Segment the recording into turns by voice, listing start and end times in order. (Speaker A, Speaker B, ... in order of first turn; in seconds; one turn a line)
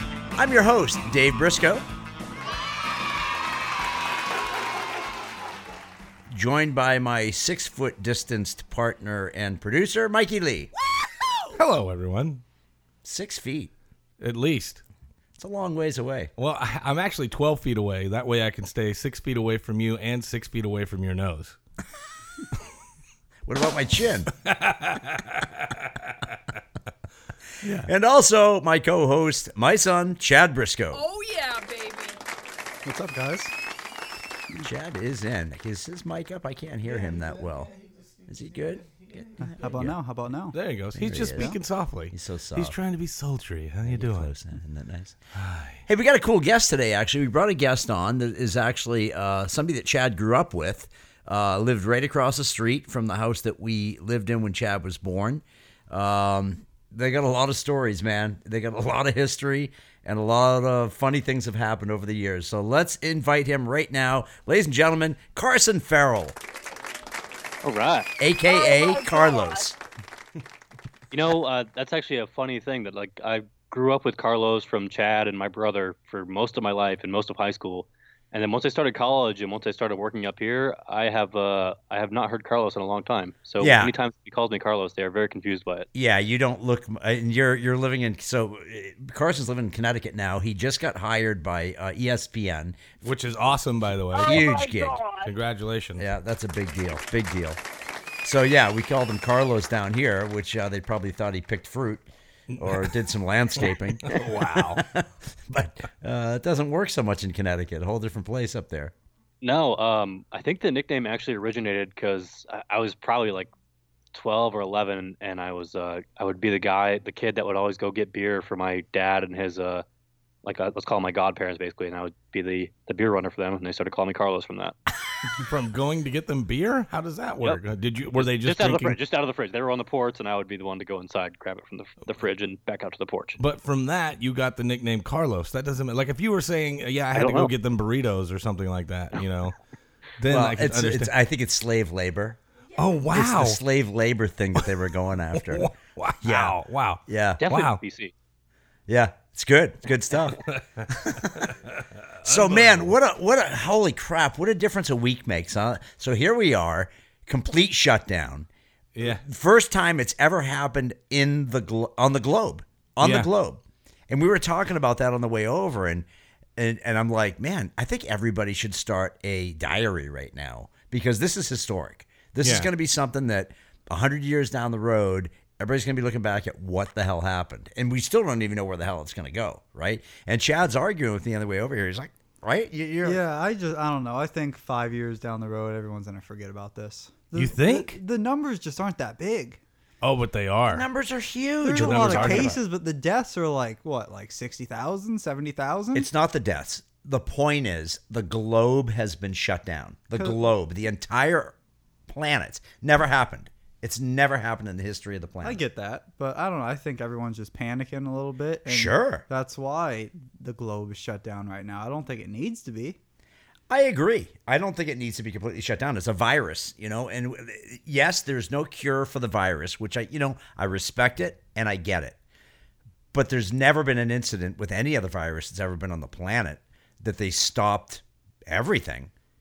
Speaker A: 0.4-1.9
Speaker A: 6.3-10.7
Speaker B: 11.6-12.4
Speaker A: 13.0-13.7
Speaker B: 14.2-14.8
Speaker A: 15.4-16.3
Speaker B: 16.4-21.6
Speaker A: 23.5-24.3
Speaker B: 24.4-26.1
Speaker A: 27.8-31.1
Speaker C: 30.9-32.2
Speaker D: 32.9-33.5
Speaker A: 34.6-37.7
Speaker A: 38.3-40.0
Speaker D: 39.4-40.6
Speaker B: 40.5-44.3
Speaker A: 41.0-41.6
Speaker A: 42.1-42.8
Speaker A: 43.9-45.2
Speaker B: 45.3-45.8
Speaker A: 45.9-66.4
Speaker E: 67.6-68.1
Speaker A: 68.2-69.8
Speaker C: 68.6-69.5
Speaker E: 71.1-85.9
Speaker A: 83.6-83.9
Speaker A: 85.9-92.8
Speaker B: 93.0-94.5
Speaker C: 94.2-95.3
Speaker A: 94.2-95.1
Speaker B: 95.2-96.1
Speaker A: 96.0-97.6
Speaker A: 98.2-102.1
Speaker B: 102.5-102.9
Speaker A: 102.6-108.9
Speaker B: 104.0-104.8
Speaker E: 109.4-113.5
Speaker E: 114.1-119.8
Speaker E: 120.4-124.8
Speaker B: 125.4-129.0
Speaker E: 128.1-133.4
Speaker B: 133.4-139.6
Speaker E: 137.1-137.5
Speaker B: 140.2-141.1
Speaker A: 140.3-142.4
Speaker B: 142.8-143.6
Speaker A: 143.1-145.7
Speaker B: 145.3-147.8
Speaker A: 146.2-146.6
Speaker A: 147.1-147.4
Speaker E: 147.4-148.1
Speaker A: 148.9-151.5
Speaker B: 150.3-152.9
Speaker A: 152.2-158.5
Speaker B: 158.9-159.2
Speaker A: 159.0-166.1
Speaker B: 163.0-163.3
Speaker A: 166.6-183.2
Speaker B: 172.4-172.7
Speaker D: 183.0-189.6
Speaker B: 187.3-188.0
Speaker B: 190.0-190.9
Speaker A: 190.7-192.6
Speaker D: 191.6-196.1
Speaker B: 191.8-192.6
Speaker A: 195.9-201.6
Speaker D: 200.2-200.4
Speaker A: 202.1-205.6
Speaker D: 205.4-213.0
Speaker A: 208.7-209.2
Speaker A: 213.7-222.2
Speaker A: 223.1-229.1